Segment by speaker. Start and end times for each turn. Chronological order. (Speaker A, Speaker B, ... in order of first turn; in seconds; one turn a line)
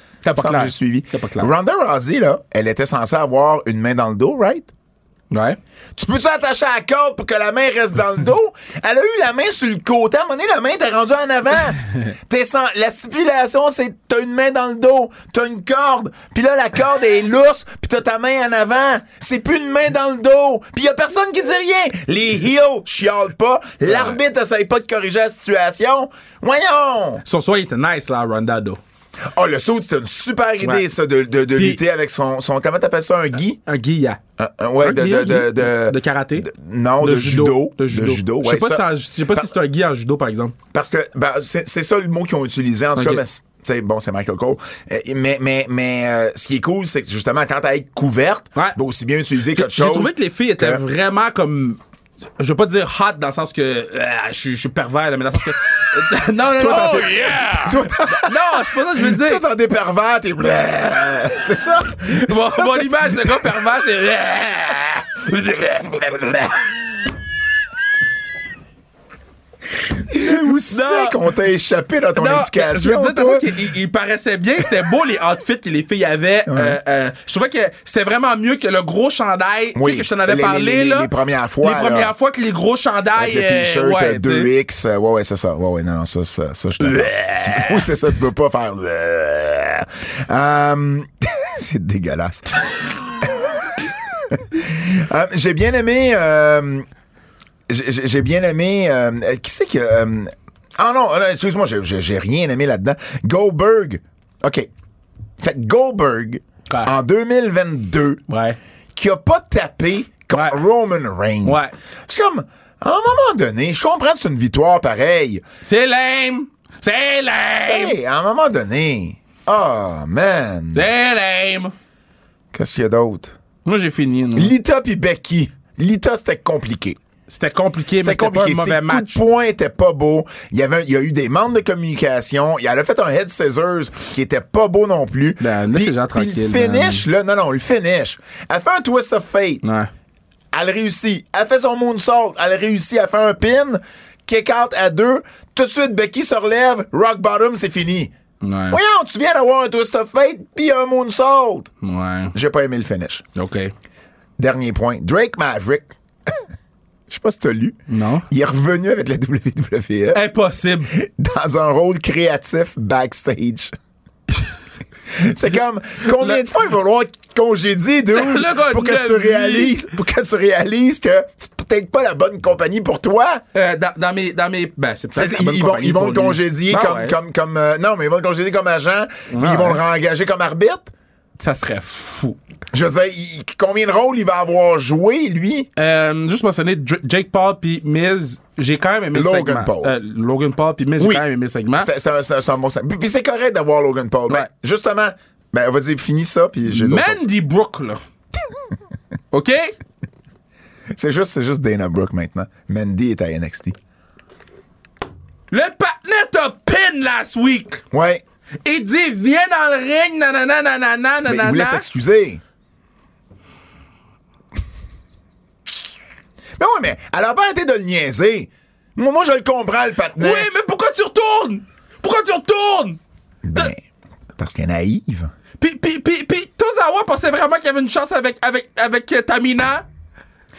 Speaker A: 0.2-1.5
Speaker B: 0.3-4.7
Speaker A: 5.3-5.6
Speaker B: 6.0-27.2
Speaker A: 23.9-24.2
Speaker A: 27.2-28.8
Speaker B: 29.3-33.6
Speaker A: 31.6-31.8
Speaker A: 33.6-34.2
Speaker B: 34.4-39.5
Speaker A: 34.8-40.5
Speaker B: 40.7-50.8
Speaker A: 43.0-43.2
Speaker A: 49.5-51.8
Speaker A: 52.4-59.4
Speaker B: 56.6-63.7
Speaker A: 62.1-66.6
Speaker B: 69.9-73.5
Speaker A: 70.2-71.2
Speaker A: 72.2-81.1
Speaker B: 76.5-76.8
Speaker B: 79.7-82.1
Speaker A: 81.6-84.5
Speaker B: 83.2-96.9
Speaker A: 86.8-87.9
Speaker B: 97.7-104.7
Speaker B: 105.4-108.2
Speaker A: 106.7-106.9
Speaker A: 108.3-108.6
Speaker B: 108.9-115.4
Speaker A: 110.3-110.6
Speaker A: 111.4-111.7
Speaker A: 115.6-118.0
Speaker B: 117.6-120.9
Speaker A: 120.7-121.7
Speaker B: 122.5-123.3
Speaker A: 123.6-124.5
Speaker B: 124.3-127.0
Speaker A: 127.3-129.2
Speaker B: 128.0-139.6
Speaker A: 135.4-137.1
Speaker A: 139.6-139.9
Speaker B: 140.5-148.1
Speaker A: 148.4-148.8
Speaker B: 148.7-151.7
Speaker A: 151.8-152.3
Speaker B: 152.3-153.2
Speaker A: 153.3-153.7
Speaker B: 154.4-156.4
Speaker B: 157.1-157.8
Speaker A: 157.9-158.2
Speaker B: 158.3-160.2
Speaker A: 160.1-160.9
Speaker B: 160.8-163.7
Speaker B: 165.1-173.4
Speaker A: 166.1-166.4
Speaker A: 168.1-169.7
Speaker A: 173.5-177.2
Speaker B: 175.1-180.9
Speaker A: 179.3-179.8
Speaker A: 181.4-182.4
Speaker B: 182.7-185.7
Speaker A: 185.8-191.9
Speaker B: 189.1-189.9
Speaker B: 191.0-191.2
Speaker B: 191.8-197.2
Speaker A: 196.7-198.0
Speaker A: 199.3-199.7
Speaker B: 200.9-203.8
Speaker A: 205.5-207.8
Speaker B: 207.9-208.2
Speaker A: 208.6-211.8
Speaker B: 211.2-212.4
Speaker B: 216.6-220.5
Speaker A: 220.2-223.0
Speaker B: 223.4-223.8
Speaker B: 224.4-225.3
Speaker A: 225.6-229.8